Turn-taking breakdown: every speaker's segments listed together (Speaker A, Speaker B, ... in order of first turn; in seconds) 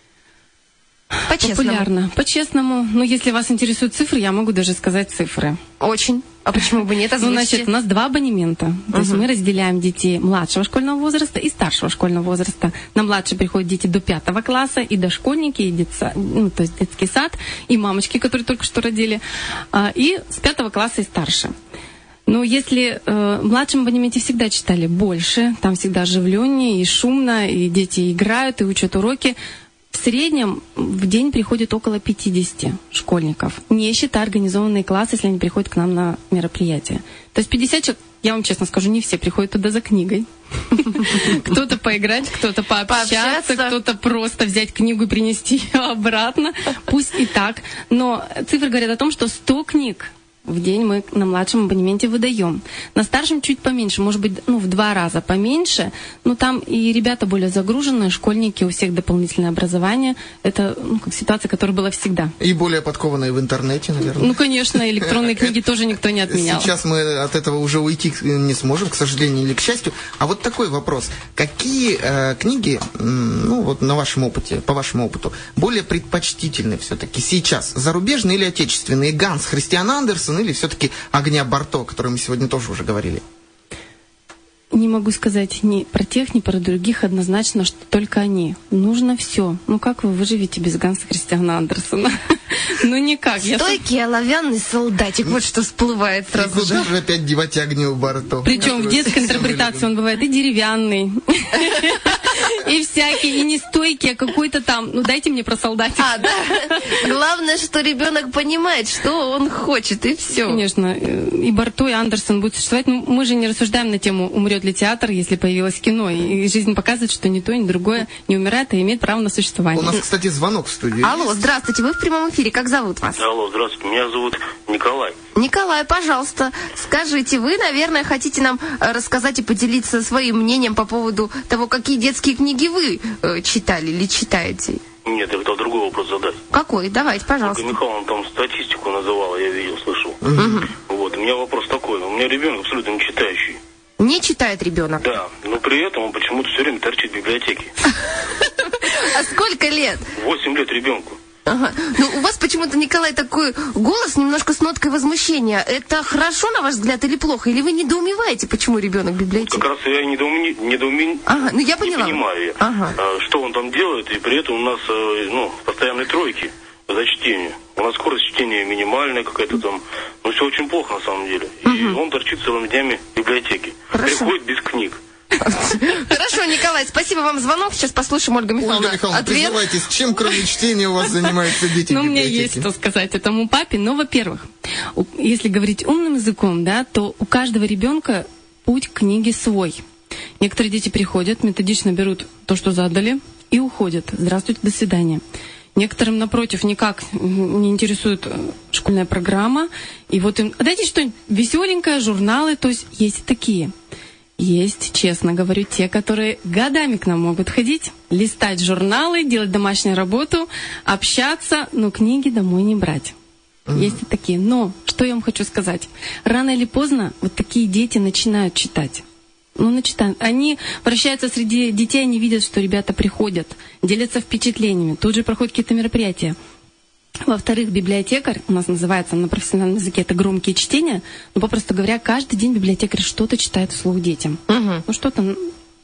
Speaker A: 1.3-5.6, 7.2-21.5, 22.3-29.4, 29.9-62.3, 64.2-66.7, 84.7-93.8, 98.4-106.9, 110.3-120.0, 181.9-189.8, 190.4-195.2, 195.8-203.7, 204.4-213.2, 213.7-219.0, 219.6-226.4, 227.3-235.5
Speaker B: 1.3-1.9, 5.8-7.7, 8.9-9.2, 42.9-43.8, 93.4-96.9, 106.0-110.6, 121.0-123.2, 125.4-134.8, 136.5-137.8, 140.3-140.7, 144.0-145.2, 147.9-150.0, 151.5-159.7, 161.3-163.0, 171.7-172.0, 173.9-174.3, 175.4-179.6, 234.5-234.8
Speaker C: 62.4-65.5, 66.3-83.2, 96.3-99.9, 119.7-121.4, 140.2-140.7, 178.6-182.7, 213.7-214.0
Speaker D: 123.2-125.2, 135.1-136.4, 137.4-140.2, 140.8-143.6, 145.0-147.7, 150.2-151.2, 159.3-175.0